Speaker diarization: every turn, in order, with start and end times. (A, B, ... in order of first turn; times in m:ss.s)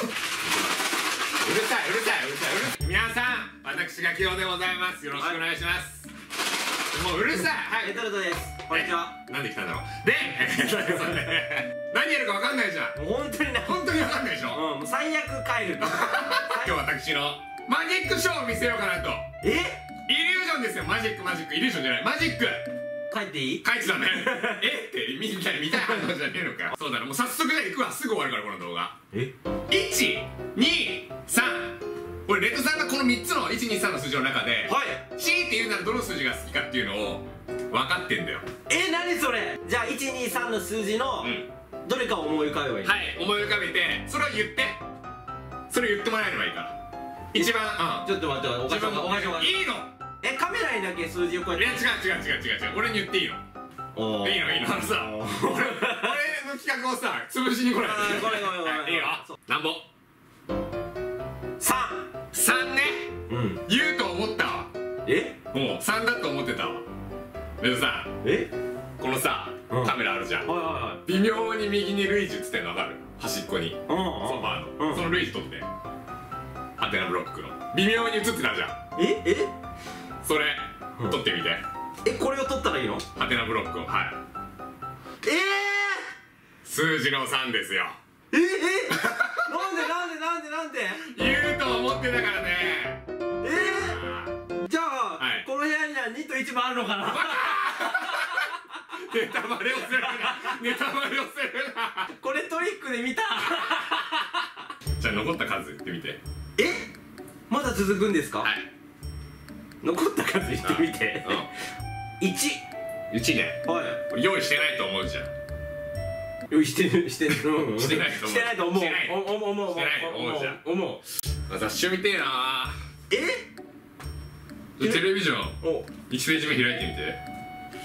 0:01.4-0:06.1 A
0:06.9-0:08.1 A
0:08.6-0:08.9 B
0:08.7-0:13.0 A
0:13.0-0:13.7 B
0:13.6-0:14.7 A
0:14.5-0:16.7 B
0:15.8-0:19.2 A
0:19.4-0:19.8 B
0:20.1-0:22.6 A
0:23.1-0:23.6 B
0:23.6-0:29.0 A
0:29.7-0:38.4 A
0:34.7-0:35.0 B
0:38.7-0:41.3 B
0:41.2-0:41.5 A
0:41.8-0:42.9 B
0:42.8-0:44.8 A
0:45.7-0:46.8 A
0:47.3-0:49.9 A
0:48.0-0:49.6 B
0:50.2-0:51.6 B
0:51.5-0:53.4 A
0:53.9-0:54.4 B
0:54.2-0:59.9 A
0:55.0-0:56.0 B
0:57.8-0:59.3 B
1:01.6-1:02.0 B
1:02.3-1:03.2 A
1:03.3-1:03.6 B
1:03.7-1:04.7 A
1:05.5-1:06.8 A
1:07.6-1:08.1 A
1:09.0-1:15.7 A
1:10.4-1:11.0 B
1:13.9-1:15.0 B
1:16.8-1:18.8 A
1:19.0-1:19.4 B
1:20.2-1:21.6 A
1:22.0-1:23.0 B
1:23.1-1:24.2 A
1:25.2-1:26.0 B
1:26.6-1:28.0 A
1:28.3-1:30.9 B
1:28.9-1:29.9 A
1:31.0-1:34.4 A
1:33.4-1:33.9 B
1:34.6-1:37.4 B
1:35.2-1:35.5 A
1:37.0-1:42.1 A
1:42.2-1:44.2 B
1:43.7-1:44.0 A
1:45.0-1:46.2 A
1:47.5-1:48.5 B
1:48.4-1:48.7 A
1:49.8-1:51.3 B
1:50.6-1:51.5 A
1:52.2-1:52.6 B
1:53.1-1:55.3 A
1:53.7-1:53.9 B
1:56.5-2:01.0 B
1:57.3-2:00.6 A
2:01.5-2:02.8 A
2:04.8-2:07.2 A